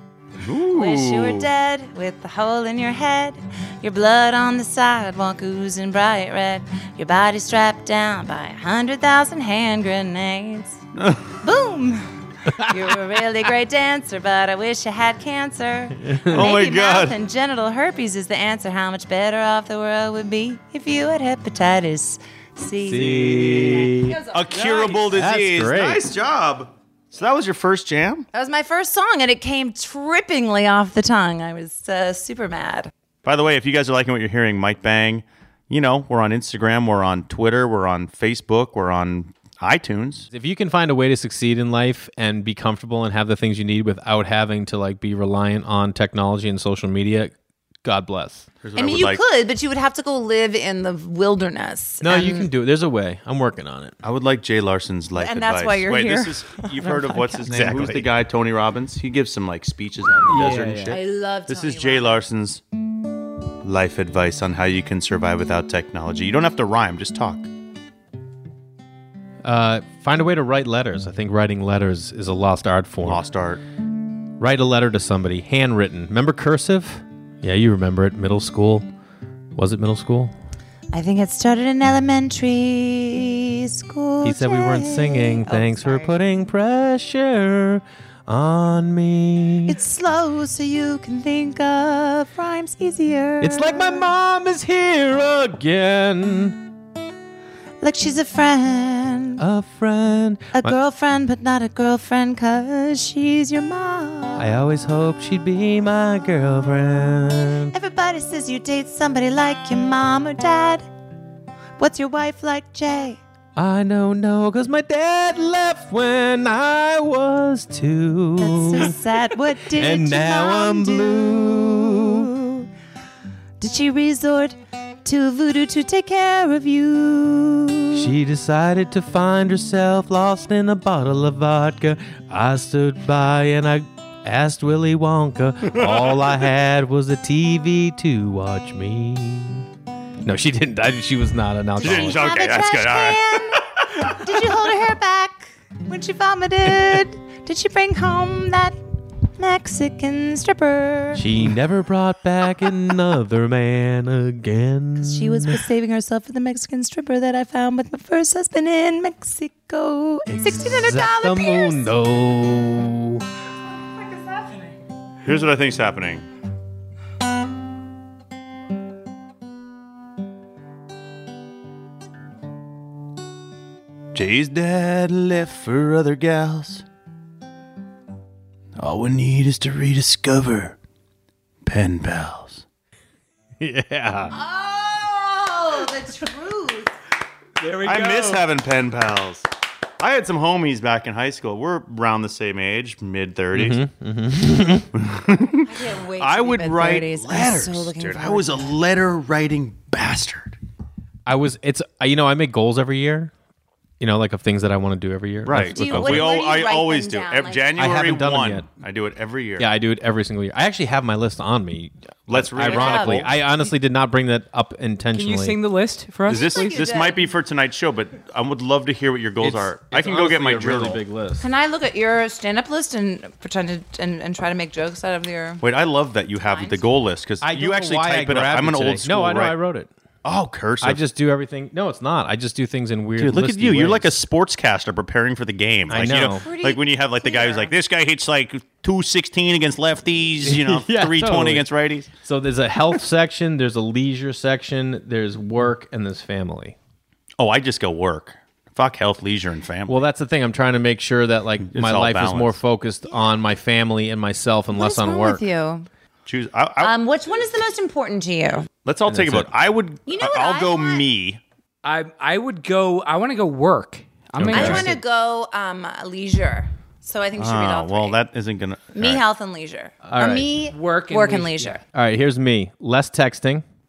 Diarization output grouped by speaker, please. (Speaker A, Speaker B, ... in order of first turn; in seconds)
Speaker A: 0.4-1.5, 10.9-11.3, 16.3-17.2, 23.1-28.3, 33.2-40.3, 48.6-49.2, 54.0-62.6, 63.6-67.5, 73.0-73.6, 135.7-136.3, 141.8-143.8, 165.2-166.2, 174.1-176.8, 178.8-180.8, 181.6-182.6, 187.8-189.4, 190.0-193.8, 194.9-200.6, 205.4-209.7, 212.3-213.3, 216.3-221.0, 225.6-229.5, 230.2-231.0, 233.2-242.1, 247.4-250.0, 251.7-252.6, 256.2-256.9, 258.8-261.4, 264.4-264.9, 267.4-269.2
Speaker B: 0.7-10.8, 11.4-25.1, 28.3-32.9, 48.8-52.5, 55.2-57.7, 60.9-62.2, 80.9-86.2, 89.7-94.0, 97.8-99.4, 100.5-104.5, 107.7-110.8, 111.8-113.2, 118.4-122.7, 123.6-128.1, 141.8-148.8, 149.4-151.2, 155.0-161.9, 184.3-186.9, 195.6-198.7, 205.7-207.8, 212.6-213.3, 216.3-217.3, 221.4-225.6, 226.4-226.8, 236.3-237.7, 254.7-255.9, 256.8-258.7, 260.1-261.0, 264.5-268.2, 268.9-271.8
Speaker C: 16.0-16.4, 22.8-24.2, 25.1-26.0, 40.3-47.3, 47.8-48.5, 52.0-53.9, 57.5-58.1, 60.4-60.7, 69.4-73.2, 74.4-78.8, 79.5-80.3, 84.2-89.8, 93.4-96.6, 99.4-100.7, 104.4-107.7, 113.5-119.0, 119.8-122.3, 127.9-139.7, 140.2-142.2, 151.1-155.6, 160.3-163.2, 183.6-184.3, 193.5-194.9, 201.2-203.3, 204.0-206.3, 207.8-208.7, 209.6-215.6, 219.4-221.4, 227.4-229.9, 230.8-234.1, 235.9-236.4, 240.4-241.7, 242.2-246.7, 249.9-255.4, 259.1-259.5, 264.4-264.9, 270.0-270.5, 271.9-273.6
Speaker D: 60.3-60.9, 187.6-188.4, 215.1-216.8, 261.8-265.0, 270.7-271.8